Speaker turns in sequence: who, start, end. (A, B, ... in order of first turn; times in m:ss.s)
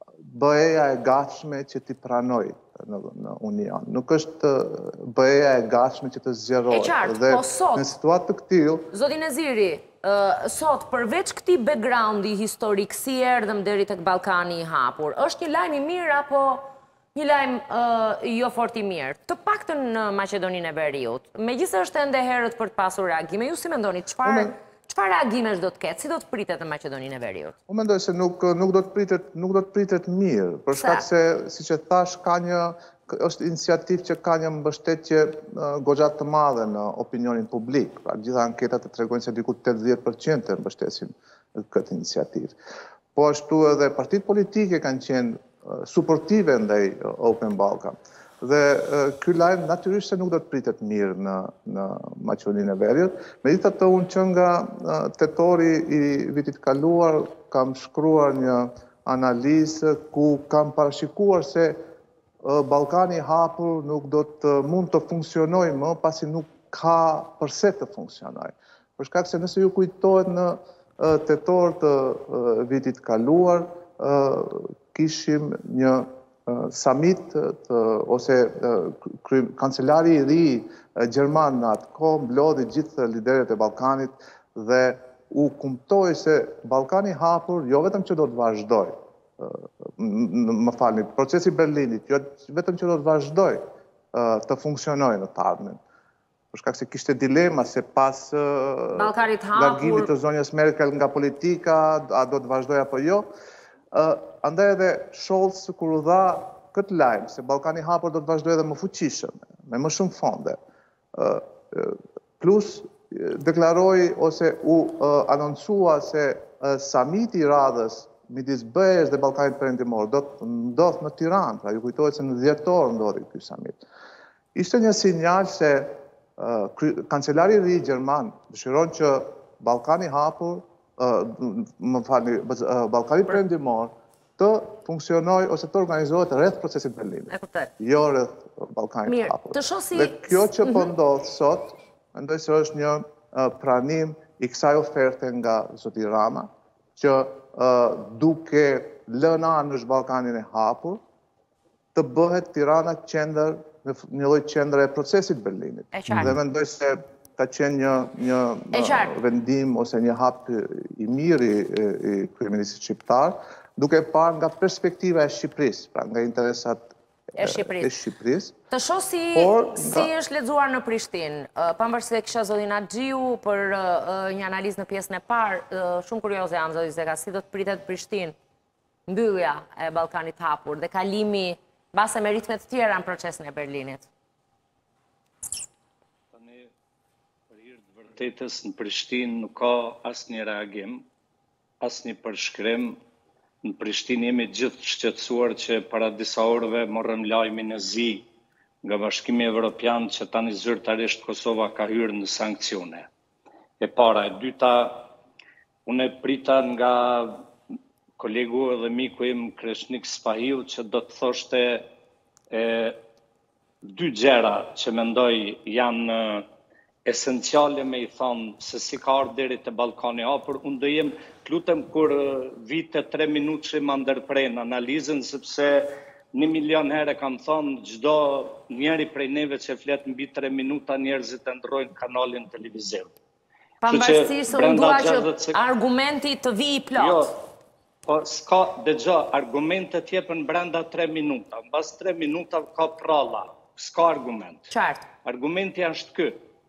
0:00.2-0:08.9 A
0:06.7-0:07.9 B
0:08.9-0:27.5 B
0:24.2-0:24.5 A
0:27.7-0:42.6 A
0:30.7-0:31.0 B
0:43.1-1:01.8 A
1:02.4-1:35.8 A
1:36.5-1:43.3 A
1:38.9-1:40.1 B
1:43.9-1:50.6 A
1:51.1-2:03.8 A
2:04.5-2:31.0 A
2:17.3-2:17.7 B
2:19.1-2:20.9 B
2:31.9-2:48.6 A
2:35.9-2:36.3 B
2:38.7-2:39.2 B
2:47.4-2:47.9 B
2:48.7-2:58.3 B
2:49.3-2:50.1 A
2:59.1-3:04.0 B
3:06.3-3:06.7 C
3:07.5-3:11.1 C
3:11.8-3:13.0 C
3:13.6-3:18.3 C
3:18.8-3:23.1 C
3:23.8-3:25.1 C
3:25.8-3:27.4 C
3:28.2-3:31.9 C
3:32.5-3:33.0 C
3:33.8-3:36.4 C
3:37.0-3:53.1 C
3:53.8-3:57.3 B
3:53.8-3:55.6 C
3:57.0-3:57.3 C
3:58.0-4:04.7 C
4:04.7-4:05.0 B
4:05.2-4:06.4 C